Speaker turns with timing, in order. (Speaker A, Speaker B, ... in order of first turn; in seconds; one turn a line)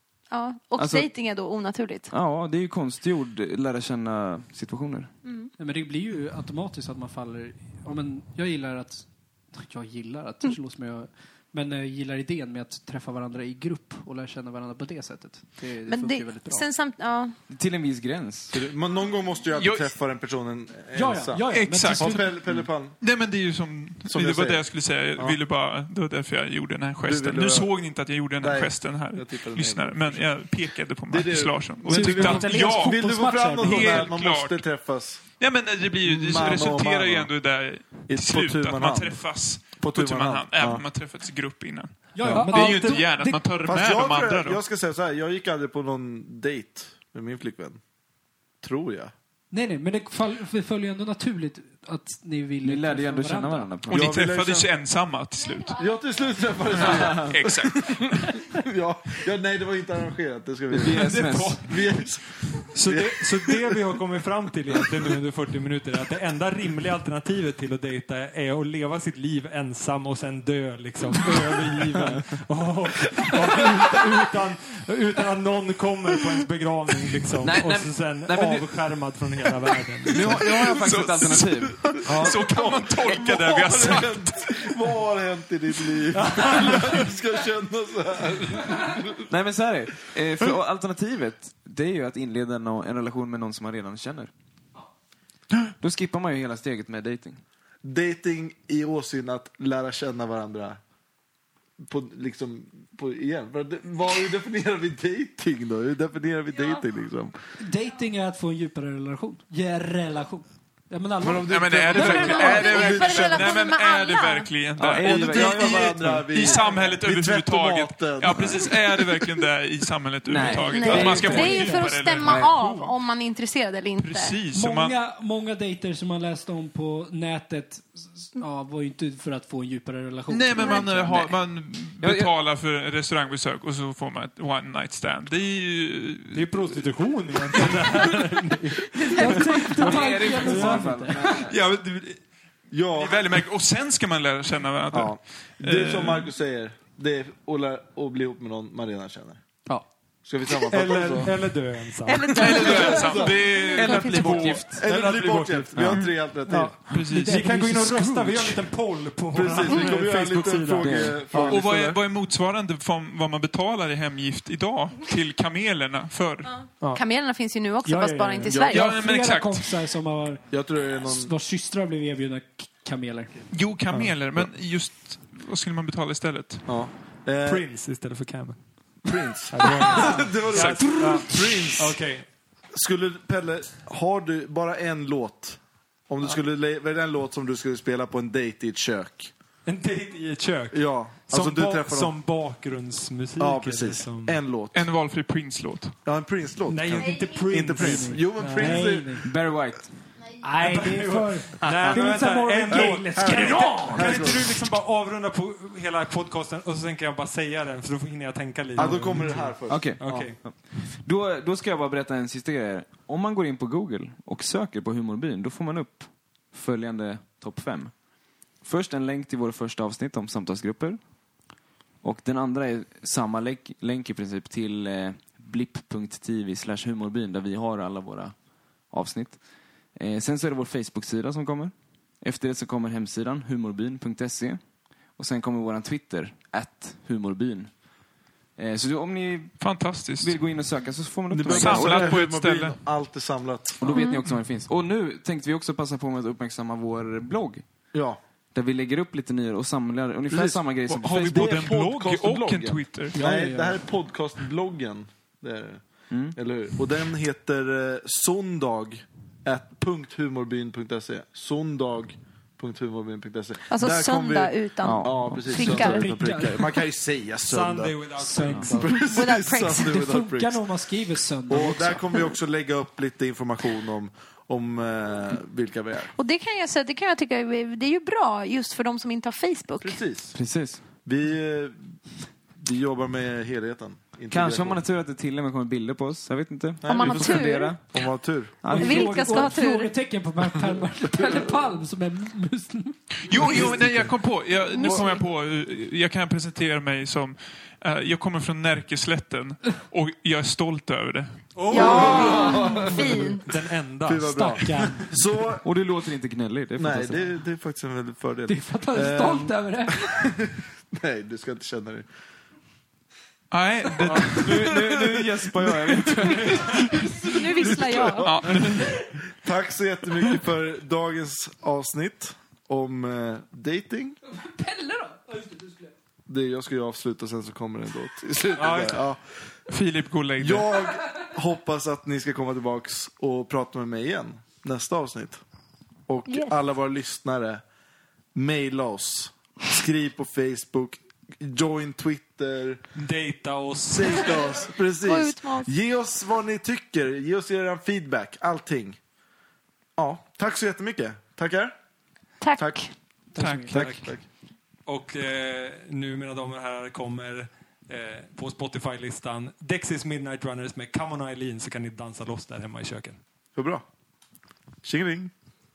Speaker A: 0.3-2.1
Speaker B: 0.8-1.1
Speaker B: 2.1-5.1
Speaker A: 5.2-5.5
Speaker C: 5.6-16.6
Speaker A: 15.9-17.4
Speaker B: 17.5-18.6
Speaker D: 18.5-23.0
Speaker E: 19.6-19.9
Speaker C: 20.9-22.3
Speaker E: 21.5-34.6
Speaker D: 24.0-24.6
Speaker D: 27.0-27.7
Speaker D: 28.4-30.5
Speaker D: 31.1-35.2
Speaker C: 31.9-34.1
Speaker E: 35.4-44.6
Speaker D: 36.0-37.3
Speaker D: 38.1-40.8
Speaker C: 42.1-43.4
Speaker F: 42.3-43.0
Speaker D: 43.6-47.8
Speaker D: 48.6-49.1
Speaker C: 49.5-53.7
Speaker B: 52.6-54.1
Speaker D: 53.9-54.7
Speaker E: 53.9-55.9
Speaker D: 55.7-63.8
Speaker E: 56.7-58.3
Speaker B: 57.0-57.3
Speaker B: 60.7-61.8
Speaker E: 61.0-61.9
Speaker F: 62.7-80.4
Speaker B: 77.4-78.9
Speaker B: 80.1-82.0
Speaker E: 80.4-84.8
Speaker F: 82.0-82.4
Speaker D: 82.1-89.2
Speaker F: 86.1-86.8
Speaker B: 89.3-94.3
Speaker B: 95.8-97.4
Speaker D: 97.8-100.8
Speaker D: 101.8-107.3
Speaker C: 107.6-111.6
Speaker D: 111.2-113.6
Speaker E: 111.4-122.5
Speaker A: 111.9-114.5
Speaker B: 114.8-116.4
Speaker D: 115.0-119.1
Speaker B: 120.3-121.7
Speaker A: 120.7-124.4
Speaker C: 121.3-121.9
Speaker E: 124.0-125.0
Speaker C: 124.5-130.9
Speaker E: 130.3-136.8
Speaker B: 130.9-131.3
Speaker B: 132.0-132.3
Speaker F: 136.3-140.9
Speaker E: 137.5-138.2
Speaker C: 139.1-141.2
Speaker B: 139.7-141.5
Speaker E: 141.2-142.2
Speaker D: 142.7-143.4
Speaker E: 142.9-146.3
Speaker D: 144.9-149.4
Speaker D: 150.2-151.4
Speaker F: 150.7-152.4
Speaker A: 152.1-154.6
Speaker E: 152.3-154.7
Speaker B: 152.7-153.1
Speaker D: 152.8-153.4
Speaker B: 153.8-154.8
Speaker D: 154.7-156.8
Speaker F: 154.8-155.9
Speaker B: 155.7-156.0
Speaker C: 156.5-158.6
Speaker F: 156.5-161.6
Speaker E: 156.9-157.6
Speaker D: 159.3-162.0
Speaker B: 160.7-161.4
Speaker E: 161.4-166.7
Speaker A: 166.4-169.0
Speaker C: 167.8-170.4
Speaker D: 168.5-168.8
Speaker E: 168.6-169.8
Speaker D: 170.5-171.3
Speaker C: 171.0-173.3
Speaker E: 173.5-176.8
Speaker D: 176.7-177.6
Speaker F: 177.4-178.9
Speaker D: 179.0-182.0
Speaker F: 179.5-182.3
Speaker E: 180.4-181.2
Speaker D: 182.7-189.3
Speaker F: 189.7-194.4
Speaker D: 190.7-192.2
Speaker D: 193.4-194.9
Speaker E: 194.7-196.0
Speaker D: 196.0-199.2
Speaker F: 196.7-199.0
Speaker C: 197.8-199.3
Speaker B: 199.2-200.1
Speaker C: 200.4-204.4
Speaker F: 200.6-210.4
Speaker B: 201.6-202.0
Speaker D: 202.7-204.6
Speaker D: 208.7-210.3
Speaker B: 209.7-221.0
Speaker B: 222.0-229.4
Speaker B: 229.9-237.8
Speaker B: 238.6-242.2
Speaker E: 239.6-240.4
Speaker D: 241.3-243.8
Speaker E: 241.4-242.8
Speaker B: 243.8-247.6
Speaker A: 243.9-244.2
Speaker D: 247.9-248.2
Speaker B: 248.5-251.8
Speaker D: 250.3-270.6
Speaker E: 251.0-253.2
Speaker C: 253.1-253.8
Speaker B: 256.1-256.4
Speaker A: 263.7-266.1
Speaker B: 264.8-265.8
Speaker C: 265.5-266.7
Speaker F: 267.4-268.9
Speaker C: 268.2-269.1
Speaker A: 269.0-269.9
Speaker C: 269.7-272.2
Speaker D: 271.5-276.1
Speaker A: 276.1-280.0
Speaker D: 279.8-280.4
Speaker B: 280.3-280.8
Speaker D: 281.0-282.0
Speaker D: 282.5-284.8
Speaker B: 284.3-288.0
Speaker D: 286.8-288.5
Speaker A: 286.9-287.7
Speaker B: 288.6-289.5
Speaker C: 288.7-293.7
Speaker A: 288.7-289.9
Speaker E: 293.2-301.5
Speaker D: 293.4-294.1
Speaker A: 294.7-295.2
Speaker F: 301.6-305.0
Speaker C: 301.6-302.9
Speaker A: 301.7-303.4
Speaker D: 301.7-303.4
Speaker D: 304.0-305.6
Speaker C: 304.3-305.1
Speaker B: 305.6-307.3
Speaker D: 306.8-312.1
Speaker C: 308.5-310.3
Speaker E: 313.5-314.6
Speaker D: 314.1-318.3
Speaker B: 314.1-316.8
Speaker A: 317.2-318.4
Speaker C: 317.8-318.2
Speaker E: 318.2-318.9
Speaker D: 319.4-324.2
Speaker C: 324.6-325.9
Speaker D: 326.3-329.2
Speaker F: 328.6-329.0
Speaker E: 329.7-330.8
Speaker D: 330.4-335.4
Speaker D: 336.1-337.6
Speaker A: 336.3-336.6
Speaker D: 338.3-342.8
Speaker F: 342.9-344.4
Speaker D: 343.8-349.0
Speaker A: 345.0-345.7
Speaker D: 350.0-351.7
Speaker A: 352.4-352.9
Speaker C: 353.3-353.8
Speaker F: 353.4-354.1
Speaker E: 353.4-353.8
Speaker D: 353.7-354.2
Speaker F: 354.9-363.2
Speaker D: 363.5-363.8
Speaker D: 364.8-365.3